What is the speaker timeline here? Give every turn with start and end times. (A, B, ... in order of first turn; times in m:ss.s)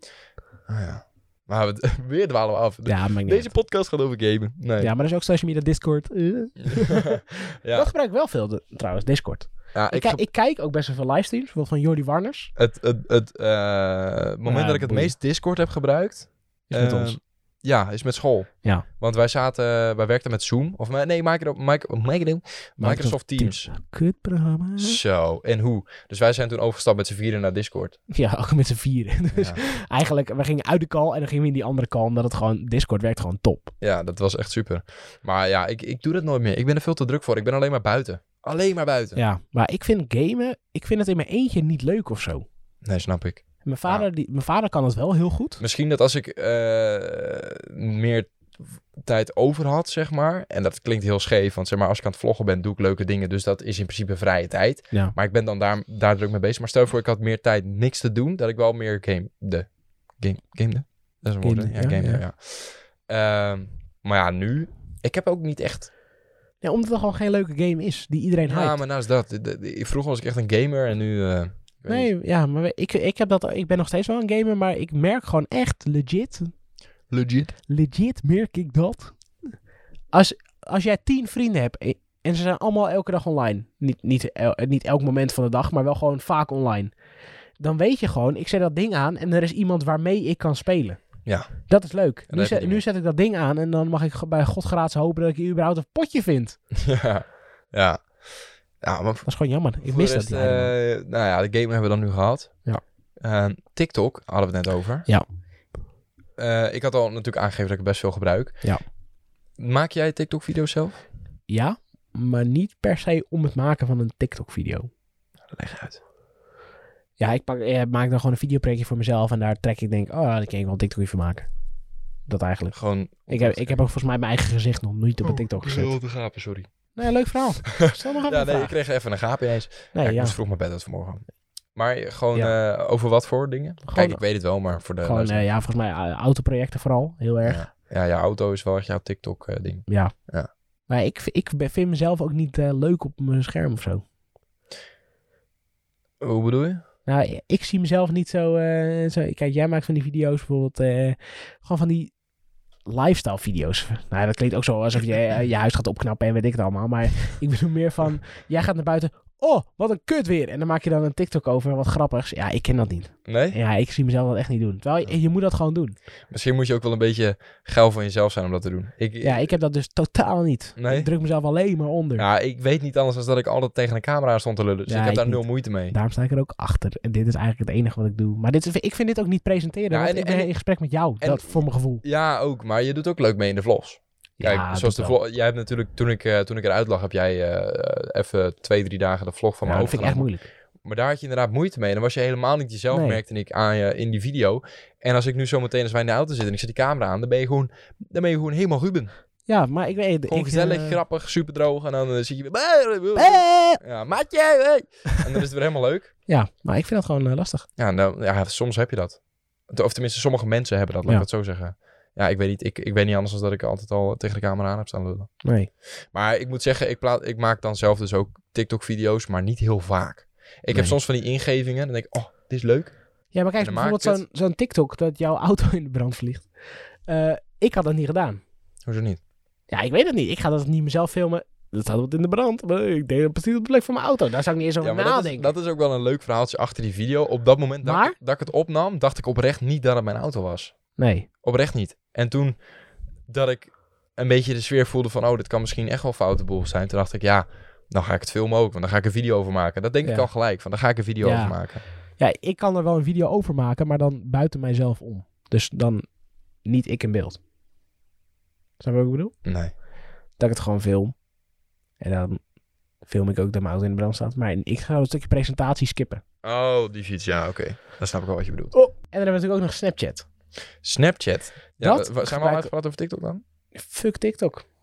0:00.7-0:04.9 A
0:02.8-0:03.5 B
0:04.8-0:12.5 B
0:07.0-0:07.9 A
0:09.7-0:10.2 A
0:12.6-0:23.7 A
0:14.4-0:15.1 B
0:16.7-0:17.2 B
0:22.8-0:25.0 B
0:24.8-0:28.0 A
0:28.1-0:33.7 B
0:29.3-0:29.6 A
0:33.8-0:39.2 A
0:39.1-0:42.4 B
0:42.8-0:44.0 A
0:43.6-0:45.6 B
0:45.6-0:48.4 A
0:48.9-1:05.9 A
1:01.4-1:02.2 B
1:06.6-1:08.8 B
1:08.4-1:12.1 A
1:11.9-1:16.5 B
1:17.1-1:17.5 A
1:17.7-1:19.2 B
1:20.1-1:26.9 B
1:27.6-1:36.6 B
1:31.2-1:31.7 A
1:32.3-1:32.8 A
1:36.7-1:38.2 A
1:38.8-1:39.3 A
1:39.2-1:40.7 B
1:39.8-1:45.1 A
1:46.4-1:48.7 A
1:49.6-1:51.0 A
1:51.5-1:54.9 B
1:55.5-1:56.0 A
1:57.2-2:01.5 B
2:02.3-2:05.9 B
2:02.7-2:03.8 A
2:05.2-2:06.7 A
2:06.9-2:08.7 B
2:07.8-2:15.4 A
2:09.9-2:10.4 B
2:13.8-2:14.2 B
2:15.0-2:17.6 B
2:17.4-2:20.5 A
2:19.9-2:20.1 B
2:20.9-2:24.0 B
2:26.2-2:26.8 A
2:27.0-2:32.1 B
2:32.8-2:46.0 B
2:43.2-2:43.6 A
2:46.3-2:49.5 A
2:49.2-2:52.2 B
2:50.8-2:51.1 A
2:52.2-2:55.9 A
2:54.9-3:02.0 B
2:59.9-3:00.5 A
3:01.2-3:10.3 A
3:04.4-3:05.2 B
3:09.6-3:10.5 B
3:10.8-3:19.1 A
3:12.9-3:13.2 B
3:19.5-3:21.0 B
3:20.3-3:26.1 A
3:23.2-3:23.8 B
3:26.3-3:27.6 B
3:27.8-3:35.4 A
3:35.4-3:35.7 B
3:36.1-3:43.0 A
3:40.7-3:41.0 B
3:43.3-3:46.5 B
3:43.6-3:44.2 A
3:47.1-3:48.4 B
3:48.8-3:49.2 A
3:49.7-3:55.5 B
3:54.8-4:00.8 A
3:57.8-3:58.1 B
4:01.0-4:01.3 B
4:01.4-4:02.6 A
4:03.3-4:11.8 A
4:11.2-4:11.6 B
4:12.2-4:16.0 B
4:16.6-4:17.4 B
4:18.8-4:19.3 B
4:19.4-4:19.7 A
4:20.4-4:21.2 B
4:22.0-4:22.4 B
4:23.0-4:26.2 B
4:26.4-4:28.7 A
4:28.7-4:30.2 B
4:30.8-4:33.4 A
4:31.8-4:32.7 B
4:33.7-4:34.6 B